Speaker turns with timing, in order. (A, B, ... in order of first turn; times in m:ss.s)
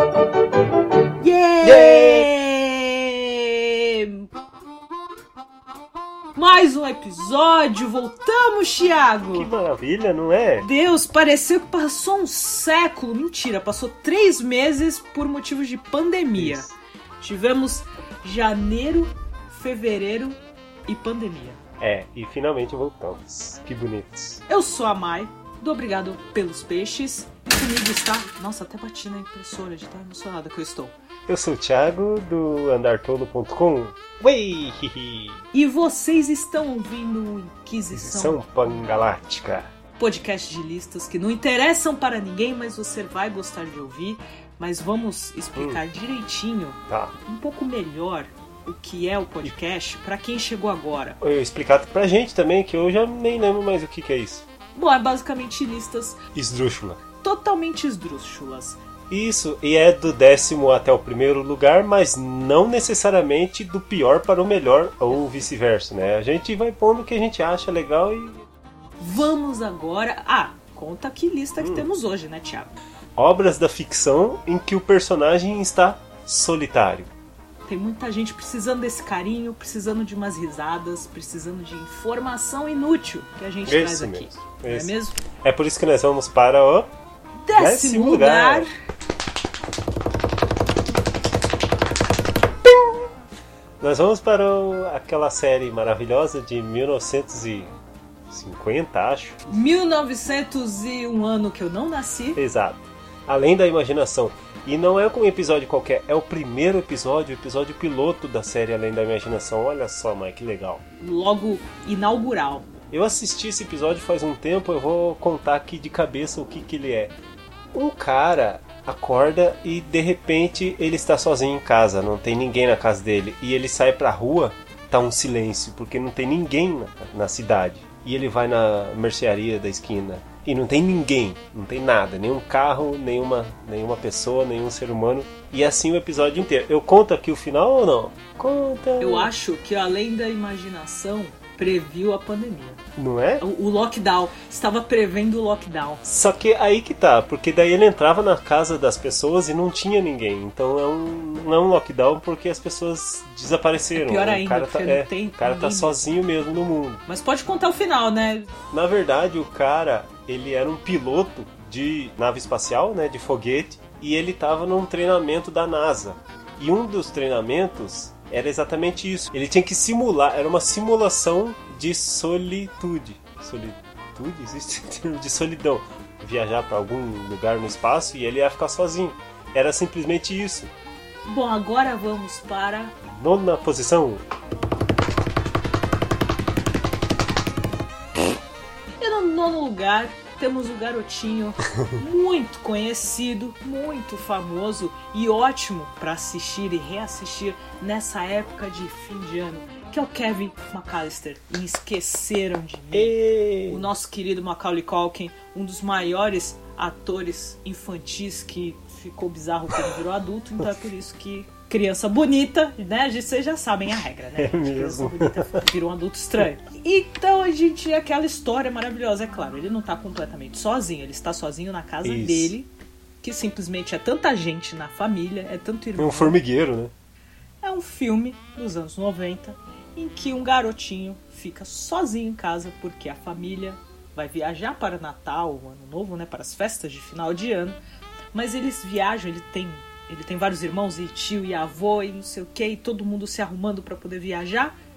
0:01.2-0:04.3 A
0:01.6-0:02.3 B
0:06.4-0:09.5 A
0:09.3-0:10.7 B
0:10.6-0:16.7 A
0:16.3-0:16.8 B
0:17.2-0:21.6 A
0:21.8-0:24.4 B
0:24.5-0:30.9 A
0:31.3-0:35.4 B
0:35.5-0:38.4 A
0:37.9-0:39.7 B
0:40.0-0:51.2 A
0:45.6-0:45.8 B
0:46.9-0:47.1 B
0:51.2-0:54.4 B
0:54.8-0:56.2 A
0:56.4-0:57.0 B
0:57.2-0:58.8 A
0:59.1-1:08.4 B
1:09.0-1:12.8 A
1:11.6-1:11.9 B
1:13.2-1:17.1 B
1:17.7-1:25.2 A
1:23.7-1:26.9 B
1:27.4-1:28.7 A
1:27.6-1:28.7 B
1:33.8-1:37.7 B
1:38.3-1:39.4 B
1:39.5-1:42.4 A
1:42.4-1:50.8 B
1:51.0-1:52.7 A
1:52.9-1:57.1 B
1:57.7-2:19.3 B
2:19.0-2:22.8 A
2:23.0-2:23.4 B
2:23.4-2:26.0 A
2:26.0-2:37.0 B
2:33.9-2:36.0 A
2:37.1-2:38.5 A
2:38.7-3:00.7 B
3:01.2-3:02.9 A
3:03.2-3:04.2 B
3:09.0-3:23.1 A
3:22.9-3:23.8 B
3:23.7-3:42.7 A
3:34.4-3:35.5 B
3:42.0-3:42.5 B
3:43.2-3:46.4 A
3:46.0-3:46.9 B
3:47.6-3:57.8 A
3:58.3-4:04.7 A